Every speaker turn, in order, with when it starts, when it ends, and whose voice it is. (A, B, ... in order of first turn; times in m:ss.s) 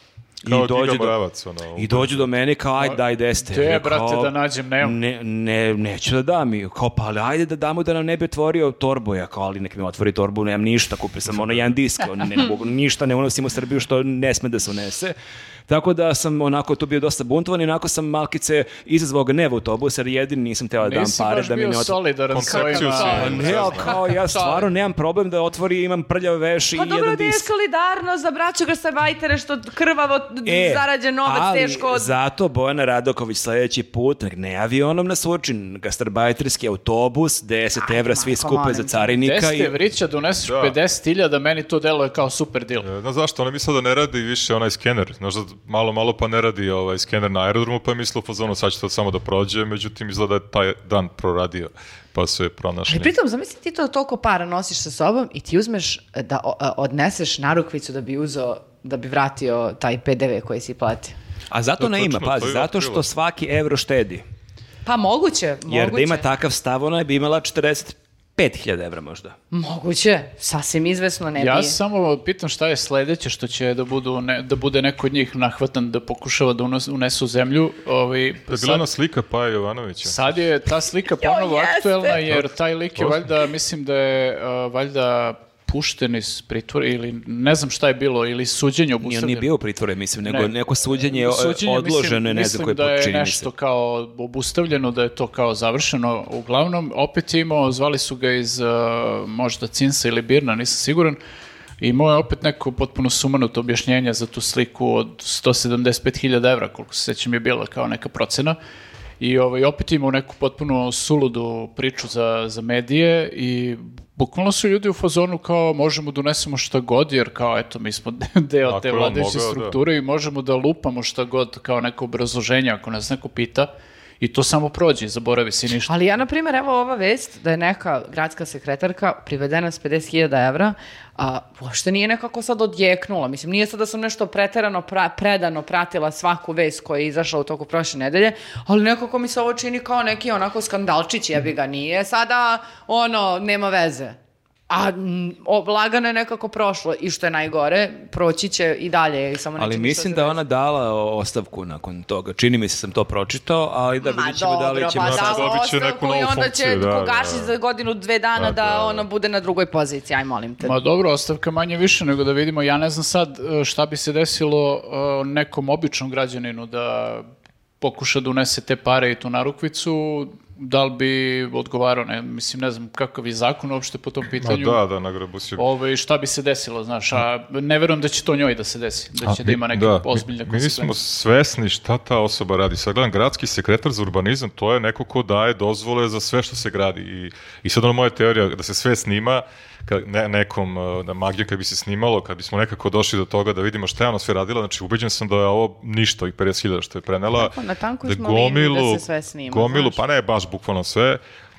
0:00.4-0:01.1 A
0:00.4-0:02.3 B
0:01.8-0:15.1 A
0:02.8-0:05.0 C
0:11.3-0:11.6 B
0:15.7-0:27.5 A
0:20.8-0:24.0 C
0:22.3-0:24.0 B
0:22.7-0:24.6 D
0:26.7-0:32.1 D
0:30.4-0:39.8 A
0:37.8-0:39.1 D
0:39.2-0:42.9 C
0:40.4-0:40.8 B
0:42.8-0:53.1 B
0:52.9-1:01.2 D
1:01.5-1:04.2 A
1:01.8-1:03.1 B
1:04.8-1:06.2 D
1:05.7-1:09.3 A
1:09.5-1:11.8 D
1:11.4-1:18.8 C
1:18.5-1:20.4 B
1:20.0-1:29.5 C
1:21.1-1:22.2 D
1:22.2-1:23.3 B
1:29.0-1:33.5 A
1:30.2-1:41.2 C
1:41.8-1:48.6 C
1:49.2-2:05.9 C
1:58.7-1:59.8 B
2:05.9-2:24.2 D
2:24.7-2:30.4 D
2:29.6-2:35.5 A
2:34.0-2:40.7 D
2:35.0-2:37.5 B
2:38.4-2:39.1 B
2:40.6-2:47.3 C
2:47.8-2:54.8 C
2:54.4-2:55.6 B
2:55.6-3:00.9 C
2:59.2-3:21.2 B
3:17.3-3:20.0 D